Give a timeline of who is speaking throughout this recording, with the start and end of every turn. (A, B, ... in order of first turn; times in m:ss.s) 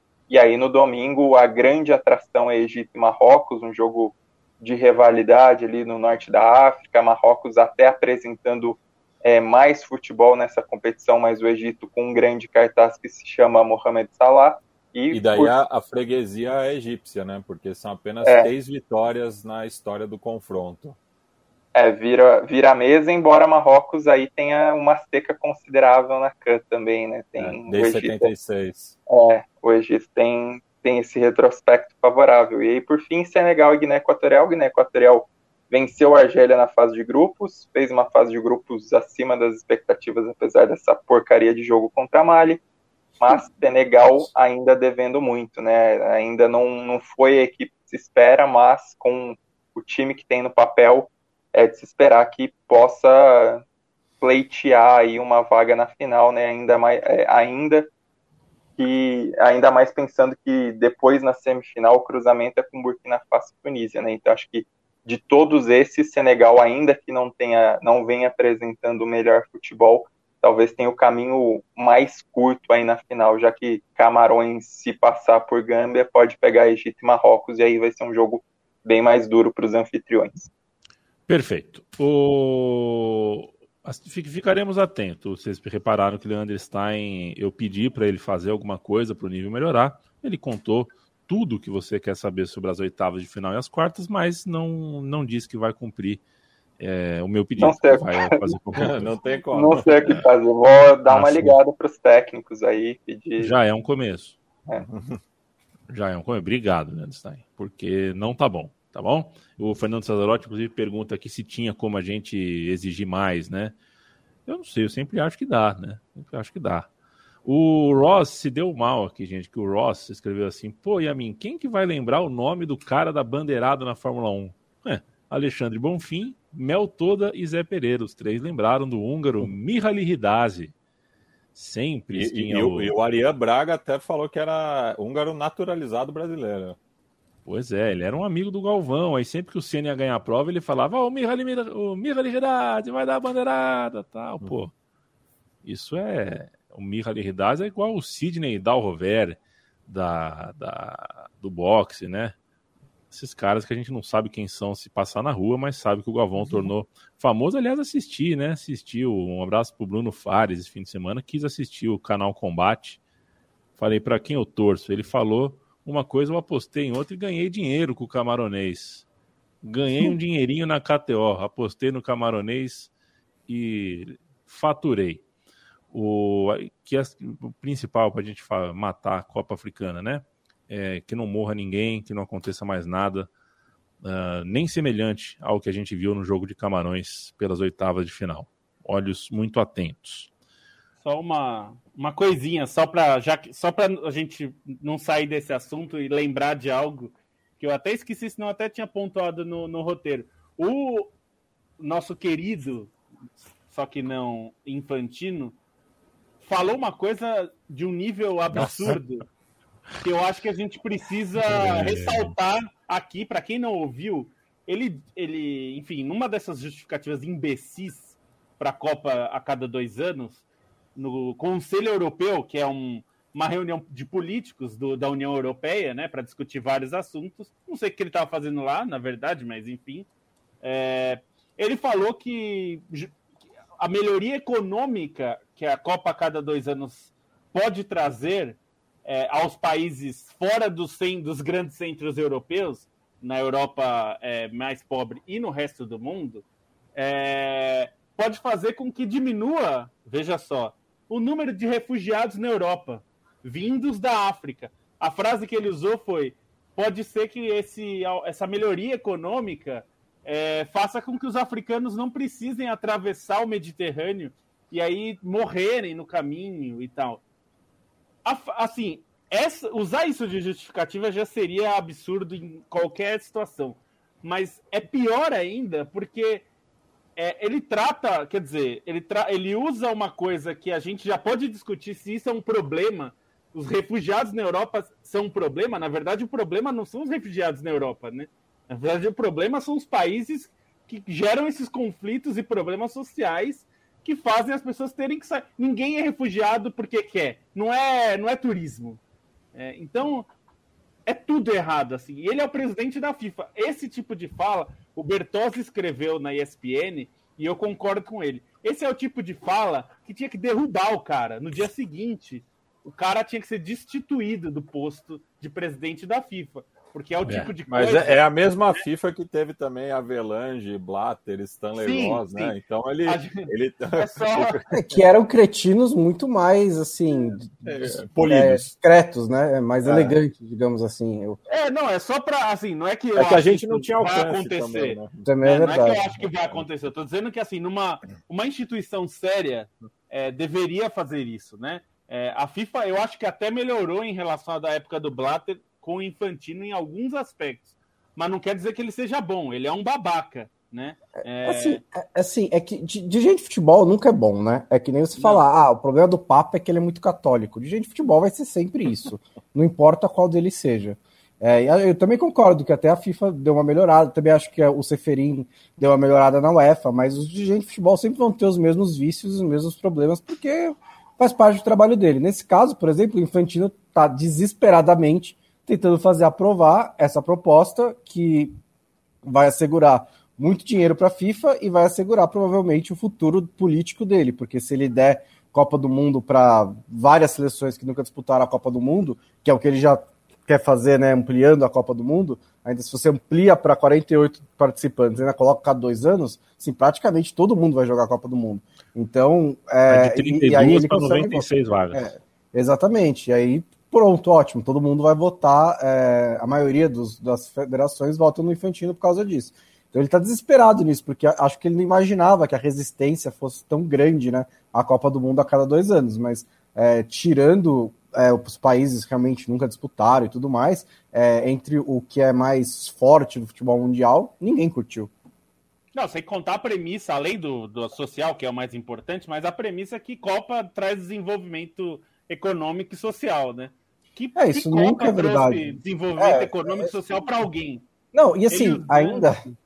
0:00.3-0:15.5 A
0:15.1-0:21.0 B
0:18.2-0:18.5 A
0:21.8-0:28.3 A
0:27.4-0:29.0 B
0:29.1-0:42.6 A
0:43.2-0:53.6 A
0:54.2-0:57.9 A
0:58.8-1:20.5 A
1:21.3-1:36.2 C
1:36.8-1:39.2 C
1:37.6-1:38.4 A
1:38.7-1:40.2 B
1:39.5-1:43.5 A
1:41.1-1:41.6 C
1:43.4-1:44.4 C
1:44.8-1:45.2 B
1:45.9-1:53.8 C
1:54.5-1:56.9 C
1:57.4-2:10.7 C
2:11.6-2:13.0 C
2:12.1-2:16.8 B
2:17.4-2:24.7 C
2:25.6-2:32.4 C
2:33.1-2:43.0 C
2:43.8-2:49.1 C
2:49.6-2:52.9 C
2:53.5-2:55.2 C
2:55.9-3:03.3 C
3:04.0-3:10.3 C
3:11.0-3:21.1 D
3:21.8-3:22.9 D
3:23.7-3:25.6 D
3:26.4-3:29.2 D
3:28.6-3:29.0 C
3:28.6-3:29.0 B
3:30.0-3:40.4 D
3:31.5-3:32.4 C
3:41.0-3:50.1 D
3:50.6-3:53.2 D
3:53.8-4:06.4 D
4:07.0-4:27.2 D
4:28.2-4:36.4 D
4:37.2-4:59.0 D
4:59.5-5:00.3 D
5:01.1-5:18.2 D
5:17.2-5:17.5 C
5:17.7-5:24.7 B
5:21.8-5:24.6 D
5:24.7-5:31.4 E
5:27.6-5:28.7 B
5:29.8-5:30.2 B
5:31.5-5:51.8 D
5:33.2-5:35.3 B
5:35.2-5:36.0 E
5:51.4-6:18.6 E
5:55.2-5:55.4 D
6:19.2-7:05.1 E
6:39.9-6:42.1 C
7:05.9-7:17.9 D
7:14.4-7:16.9 E
7:18.1-7:19.4 E
7:18.5-7:19.5 D